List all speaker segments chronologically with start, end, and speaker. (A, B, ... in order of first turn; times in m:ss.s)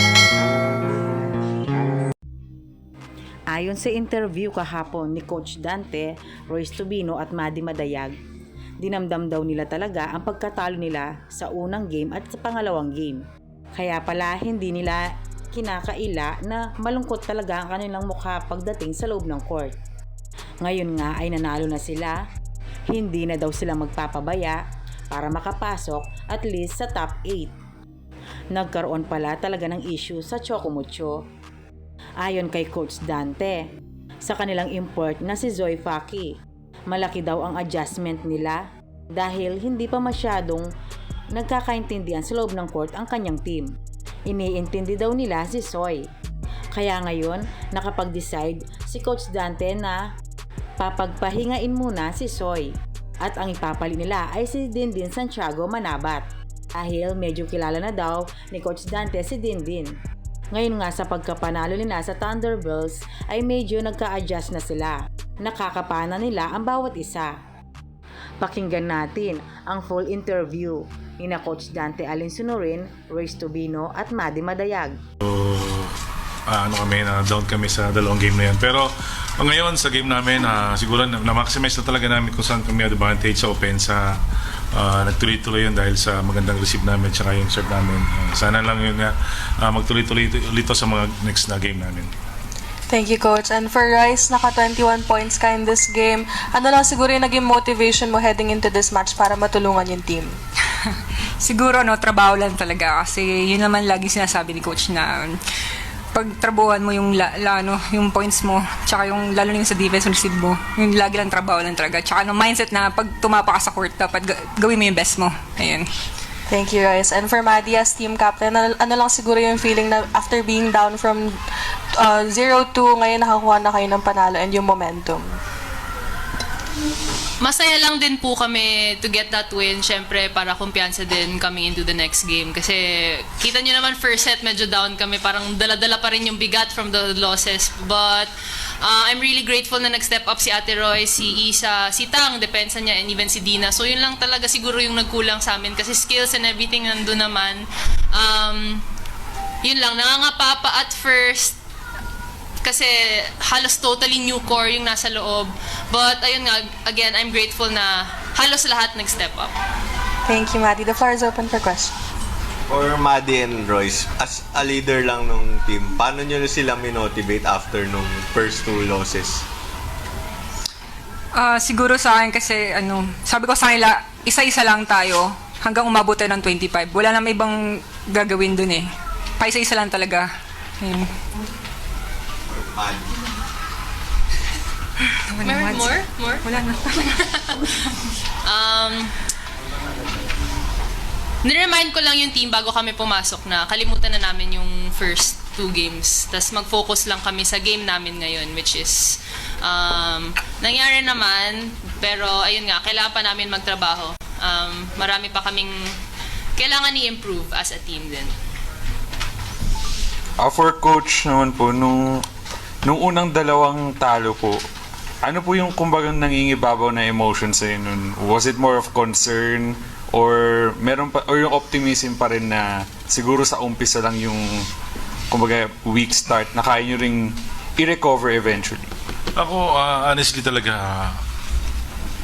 0:03.5-0:08.2 A
0:08.8-0:13.2 A
0:13.8-0:19.7 A
0:20.6-0:22.2 A
0:22.9-0:24.6 A
0:25.1-0:27.5 A
0:28.5-0:31.2 A
0:32.2-0:33.6 A
0:34.2-0:36.3 A
0:36.9-0:38.6 A
0:39.1-0:40.7 A
0:41.3-0:43.7 A
0:44.3-0:46.0 A
0:46.7-0:50.0 A
0:50.8-0:52.7 A
0:53.2-0:56.2 A
0:56.8-0:59.9 A
1:00.5-1:07.3 A
1:08.4-1:15.0 A
1:15.2-1:15.9 B
1:16.5-1:24.2 B
1:24.7-1:32.1 B
1:32.9-1:40.4 C
1:41.4-1:45.4 D
1:46.1-1:55.9 D
1:56.5-2:01.4 C
2:01.9-2:05.4 C
2:07.4-2:18.3 E
2:18.8-2:27.6 E
2:28.1-2:28.8 E
2:29.6-2:31.6 E
2:32.6-2:32.9 E
2:33.4-2:39.5 E
2:40.3-2:41.9 C
2:42.7-2:49.4 F
2:51.3-3:00.3 D
3:00.8-3:01.1 D
3:02.5-3:03.1 F
3:05.2-3:06.9 D
3:05.4-3:07.6 E
3:08.4-3:09.1 E
3:11.4-3:25.7 E
3:26.6-3:28.3 E
3:30.4-3:32.2 G
3:32.8-3:34.6 G
3:35.2-3:44.6 G
3:45.3-3:48.9 G
3:49.3-3:51.2 B